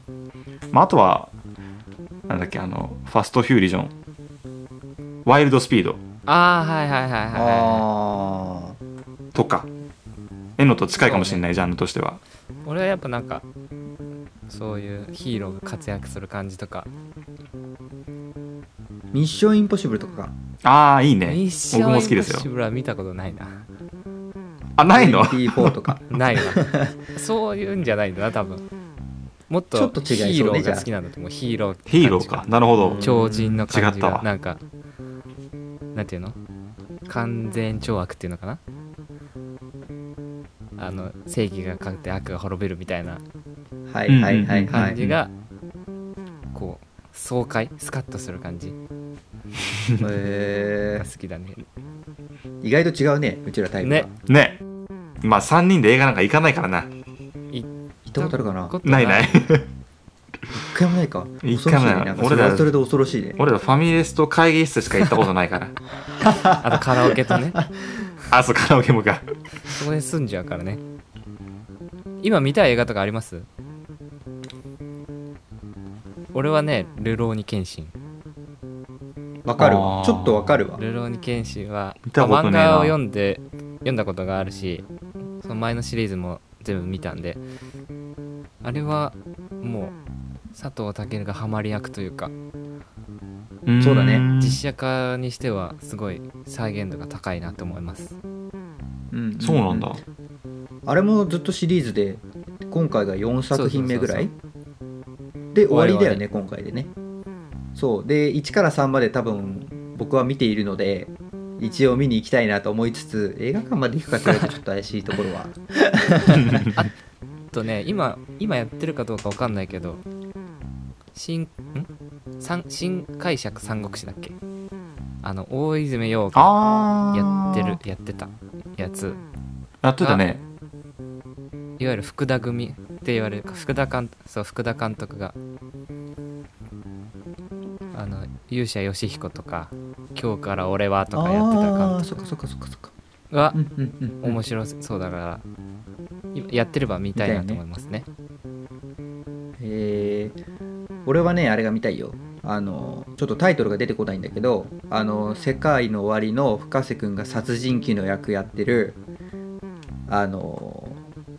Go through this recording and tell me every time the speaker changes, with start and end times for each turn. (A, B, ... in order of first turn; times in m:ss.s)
0:00.7-0:01.3 A
0:02.3-0:03.9 A
0:05.2-0:06.0 A
0:06.3-0:07.8 B
0:07.3-0:08.8 C
0:09.3-0:09.7 A
0:10.6-0:12.2 A
0:11.0-0:11.4 B
0:12.7-0:13.5 B
0:14.5-0:16.9 B
0:19.1-0:20.3 C
0:20.6-0:22.5 A
0:21.3-0:23.6 B
0:24.8-0:25.8 A
0:24.9-0:26.9 C
0:26.1-0:28.6 B
0:29.5-0:32.5 B
0:29.7-0:30.9 C
0:31.9-0:34.2 A
0:32.8-0:33.6 C
0:33.0-0:34.6 B
0:36.0-0:36.4 B
0:37.1-0:38.6 B
0:40.8-0:43.2 B
0:43.9-0:45.0 C
0:44.1-0:45.2 A
0:44.7-0:45.3 B
0:46.5-0:48.8 B
0:50.0-0:51.1 C
0:51.0-0:51.6 B
0:52.6-0:54.1 C
0:54.3-0:54.6 A
0:55.2-0:56.9 A
0:57.5-0:59.4 B
0:58.1-0:58.8 C
0:58.8-0:59.7 A
1:00.7-1:03.4 C
1:01.4-1:02.7 A
1:03.4-1:05.8 A
1:06.2-1:06.8 C
1:06.6-1:07.6 B
1:08.3-1:09.2 A
1:09.7-1:10.8 B
1:12.2-1:13.5 B
1:16.3-1:17.9 B
1:19.4-1:20.8 C
1:19.6-1:20.7 A
1:20.8-1:24.9 B
1:22.1-1:23.0 A
1:25.4-1:27.4 B
1:28.6-1:30.0 B
1:30.6-1:32.3 B
1:33.6-1:34.6 A
1:33.8-1:34.3 C
1:34.4-1:38.2 B
1:39.1-1:39.9 C
1:39.4-1:40.0 A
1:40.9-1:44.3 C
1:43.5-1:44.3 B
1:45.5-1:46.9 C
1:45.7-1:46.2 B
1:47.8-1:56.7 C
1:56.4-1:56.7 A
1:57.5-2:00.0 B
2:01.2-2:04.4 B
2:05.2-2:09.2 B
2:06.3-2:07.8 A
2:09.8-2:10.4 A
2:10.0-2:10.3 B
2:11.8-2:15.4 B
2:17.9-2:22.2 B
2:21.1-2:22.9 C
2:23.3-2:23.6 B
2:23.5-2:24.4 C
2:24.2-2:25.4 B
2:26.3-2:28.1 B
2:27.2-2:27.6 C
2:29.6-2:30.4 C
2:31.1-2:39.0 C
2:40.1-2:41.0 C